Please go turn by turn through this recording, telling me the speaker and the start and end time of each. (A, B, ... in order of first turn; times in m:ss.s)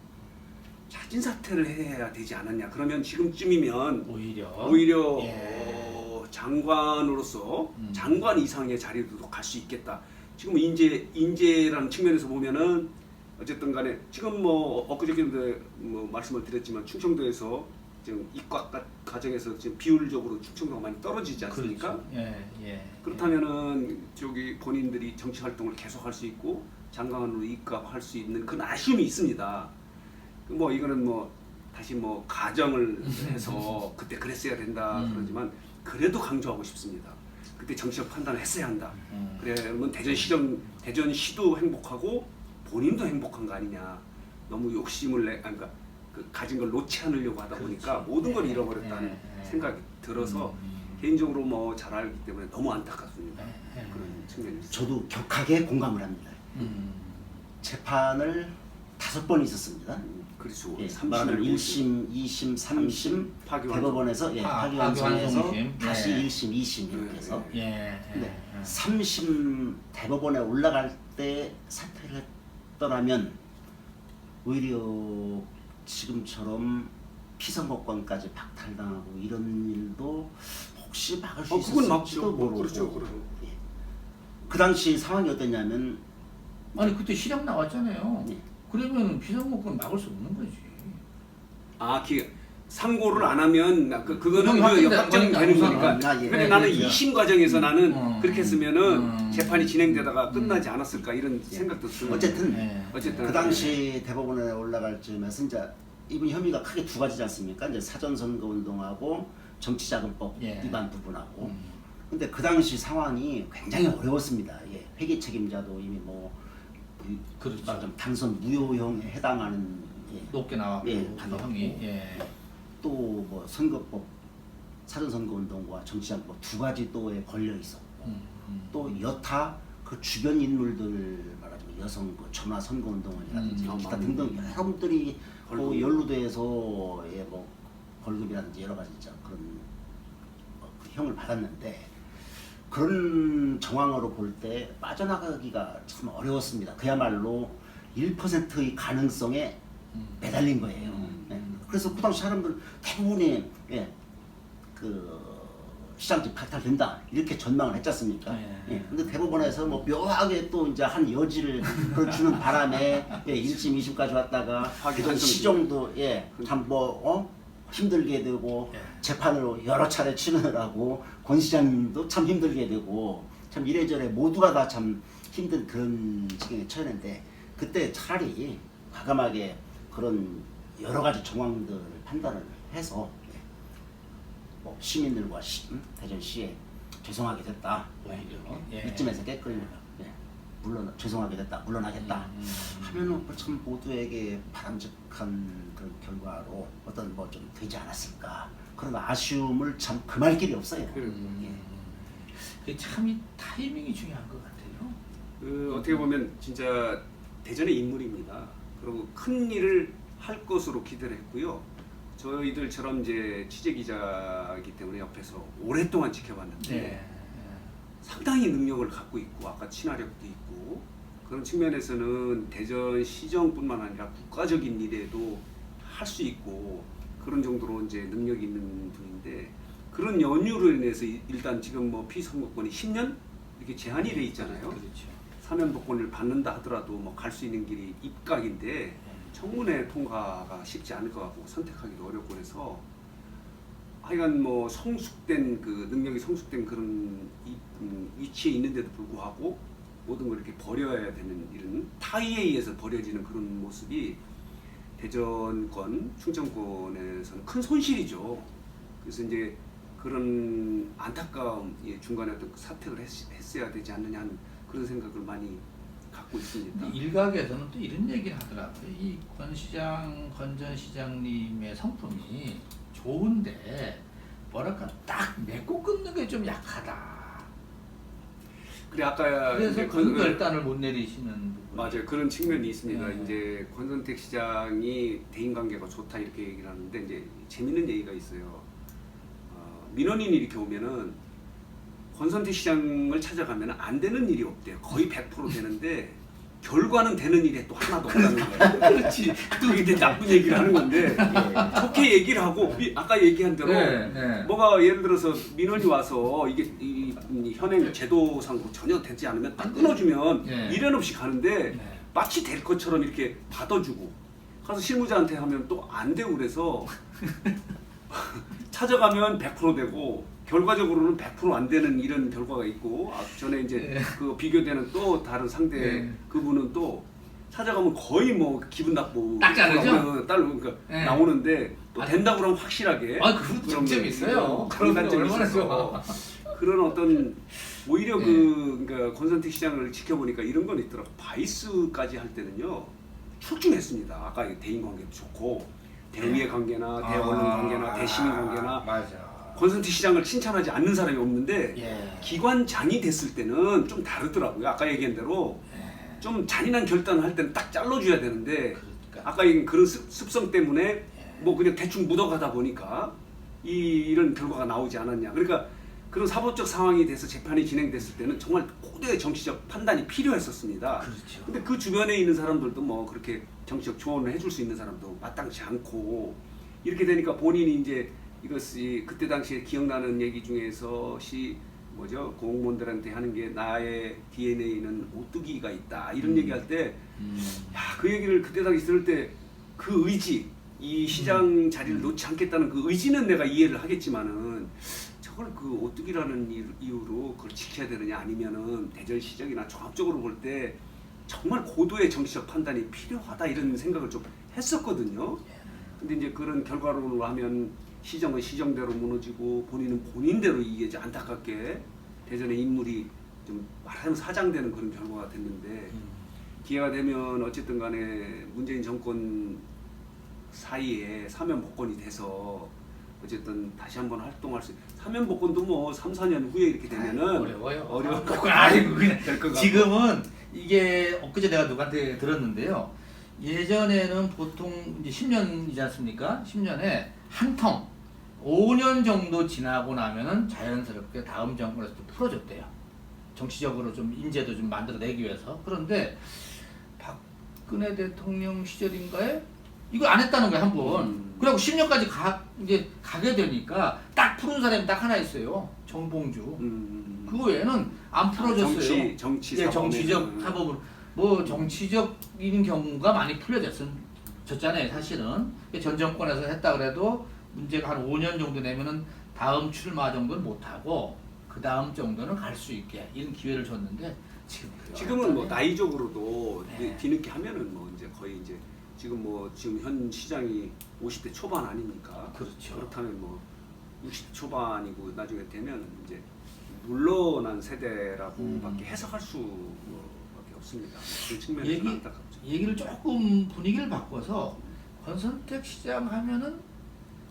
0:00.9-0:22.0 A
0:04.1-0:06.0 B
0:07.8-0:08.3 B
0:21.5-0:23.3 B
0:23.0-0:29.7 A
0:30.4-0:55.0 A
0:33.0-0:33.8 B
0:34.9-0:35.4 B
0:39.0-0:39.5 B
0:47.6-0:51.0 B
0:53.4-0:54.3 B
0:54.7-0:56.6 C
0:56.5-0:57.4 B
0:57.6-1:00.0 C
1:00.0-1:01.8 A
1:00.8-1:07.5 C
1:02.7-1:04.1 A
1:04.4-1:06.3 B
1:06.9-1:07.6 A
1:07.5-1:08.7 B
1:08.1-1:13.4 C
1:14.4-1:23.6 C
1:21.5-1:23.3 A
1:24.5-1:26.0 C
1:26.8-1:31.0 B
1:31.8-1:43.8 A
1:34.3-1:40.7 B
1:35.8-1:37.0 C
1:41.5-1:51.5 C
1:42.1-1:43.8 B
1:50.4-1:50.8 B
1:51.4-1:51.8 B
1:52.1-2:01.8 C
1:57.4-1:57.9 B
2:00.3-2:02.3 B
2:02.8-2:04.1 C
2:04.8-2:08.1 C
2:08.0-2:09.0 B
2:08.7-2:19.7 C
2:13.3-2:14.6 B
2:13.6-2:14.3 A
2:15.4-2:15.9 A
2:20.6-2:21.9 C
2:22.7-2:29.6 C
2:29.9-2:31.7 B
2:30.2-2:33.9 C
2:34.7-3:03.4 C
2:38.3-2:39.7 B
2:43.1-2:43.4 B
2:44.7-2:45.7 A
2:48.7-2:49.0 B
3:04.6-3:21.6 C
3:08.0-3:09.8 B
3:12.0-3:13.2 B
3:20.9-3:21.3 A
3:21.0-3:25.0 B
3:25.4-3:31.6 A
3:25.7-3:26.0 B
3:32.2-3:37.0 A
3:36.6-3:37.7 B
3:38.0-3:54.8 A
3:54.0-3:55.2 B
3:55.4-4:02.8 A
4:04.0-4:14.2 A
4:15.0-4:18.5 A
4:19.0-4:27.0 A
4:26.7-4:37.5 B
4:38.9-4:40.5 A
4:39.5-4:42.0 B
4:41.7-4:48.7 A
4:42.8-4:43.4 B
4:49.5-4:51.2 A
4:52.1-4:59.0 A
4:58.1-5:02.0 B
4:59.5-5:17.0 A
5:01.2-5:01.8 C
5:03.6-5:04.5 B
5:09.6-5:10.8 B
5:11.7-5:12.0 B
5:17.2-5:17.5 B
5:18.1-5:48.9 A
5:23.7-5:24.2 B
5:25.8-5:26.2 B
5:29.4-5:30.1 B
5:30.9-5:31.2 B
5:33.2-5:36.2 B
5:38.2-5:38.5 B
5:47.0-5:49.6 B
5:49.5-5:55.7 A
5:51.8-5:52.4 B
5:55.7-5:56.2 B
5:56.2-6:45.5 A
5:58.8-5:59.2 B
6:01.2-6:01.5 B
6:11.0-6:11.5 B
6:26.2-6:26.6 B
6:27.2-6:28.0 B
6:31.1-6:32.1 B
6:45.6-6:46.0 B
6:46.0-6:56.0 A
6:55.9-6:56.3 B
6:56.6-6:59.6 A
7:00.5-7:09.9 A
7:06.9-7:22.7 B
7:23.3-7:36.6 B
7:30.8-7:31.5 A
7:36.6-7:37.4 A
7:37.2-7:55.6 B
7:38.4-7:40.6 A
7:41.4-7:41.7 A
7:54.9-8:03.4 A
7:56.7-7:57.0 B
8:02.3-8:02.9 B
8:04.0-8:12.4 A
8:08.4-8:08.9 B
8:11.1-8:16.6 B